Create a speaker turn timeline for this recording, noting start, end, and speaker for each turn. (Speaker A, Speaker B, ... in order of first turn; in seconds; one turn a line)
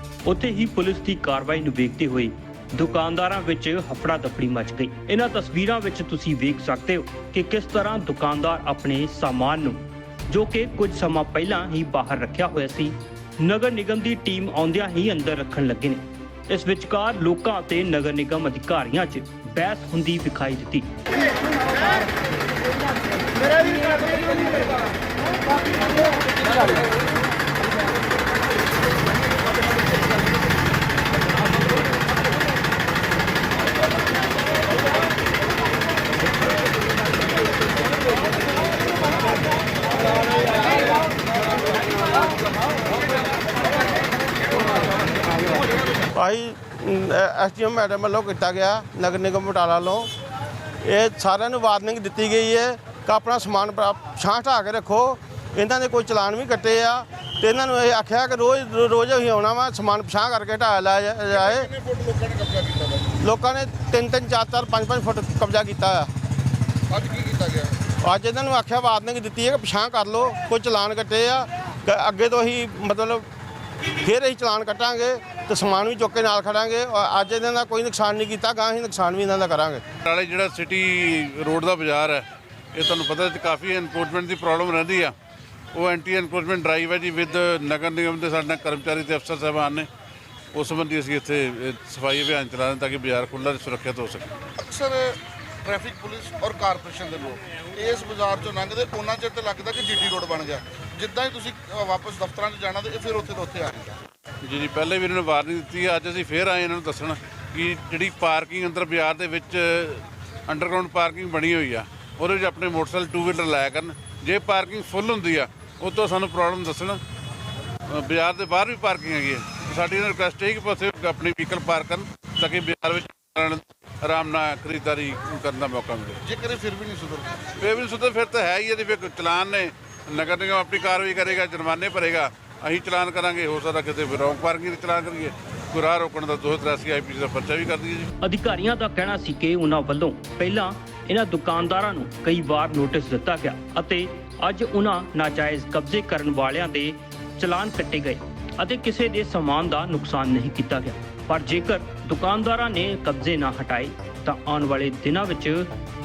Speaker A: 0.2-20.9
Speaker B: 46.1-50.1
Speaker B: 50.8-61.7
Speaker C: 61.3-63.2
Speaker B: 63.2-66.1
Speaker C: 66.9-67.8
Speaker B: 68.0-73.3
Speaker B: 73.9-79.8
Speaker D: 80.0-85.2
Speaker D: 85.7-89.9
Speaker D: 90.5-94.3
Speaker C: 94.6-104.0
Speaker D: 104.4-117.0
Speaker D: 117.9-126.2
Speaker C: 126.2-127.5
Speaker D: 127.6-138.1
Speaker A: 138.2-155.7